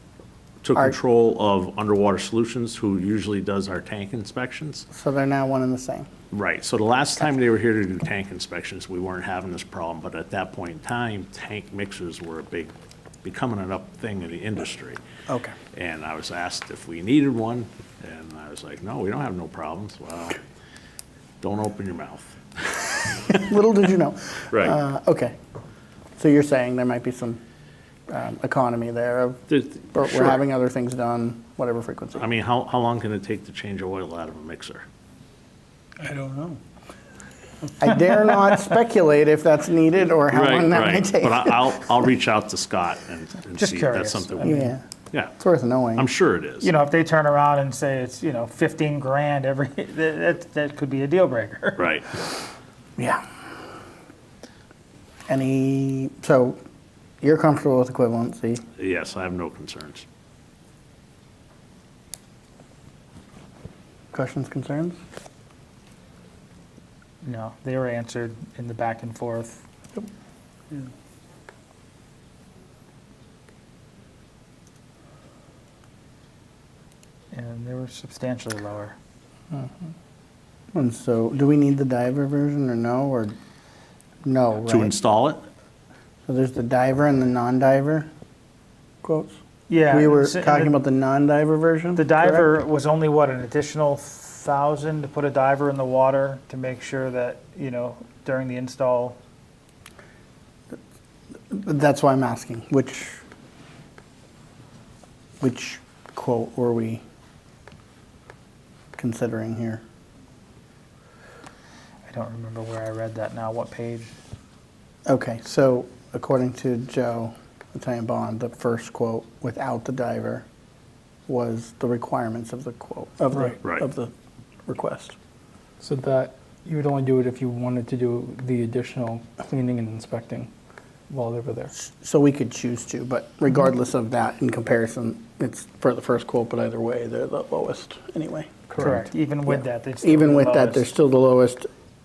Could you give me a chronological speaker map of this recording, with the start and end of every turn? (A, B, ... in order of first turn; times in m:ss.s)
0:00.6-0:04.9 A
0:04.9-0:06.1 B
0:06.3-0:12.7 A
0:13.2-0:15.0 A
0:15.3-0:15.6 B
0:15.7-0:20.4 A
0:21.4-0:23.1 A
0:23.3-0:25.4 B
0:24.5-0:24.8 A
0:26.2-0:27.4 B
0:28.1-0:32.3 B
0:29.5-0:30.4 A
0:32.2-0:34.8 A
0:36.0-0:36.6 C
0:37.8-0:41.9 B
0:40.3-0:45.4 A
0:43.6-0:44.7 D
0:44.4-0:44.8 B
0:45.4-0:46.1 B
0:46.0-0:46.7 A
0:46.6-0:51.9 D
0:51.8-0:52.1 A
0:53.0-0:53.2 B
0:55.3-0:56.6 B
0:57.2-0:58.6 B
0:58.8-1:00.0 A
1:04.1-1:05.0 B
1:07.2-1:09.6 D
1:17.3-1:19.0 D
1:20.7-1:23.4 B
1:24.2-1:24.9 B
1:24.7-1:25.4 A
1:26.3-1:28.1 B
1:29.0-1:29.4 B
1:29.7-1:30.7 D
1:29.9-1:32.5 B
1:32.0-1:39.2 D
1:41.5-1:43.2 B
1:45.4-1:47.0 B
1:49.0-1:49.8 B
1:52.1-1:54.1 D
1:55.1-2:00.4 B
2:01.3-2:04.1 B
2:04.7-2:05.2 B
2:05.8-2:10.5 C
2:11.1-2:11.7 C
2:11.7-2:21.7 B
2:18.7-2:19.0 C
2:18.8-2:20.9 D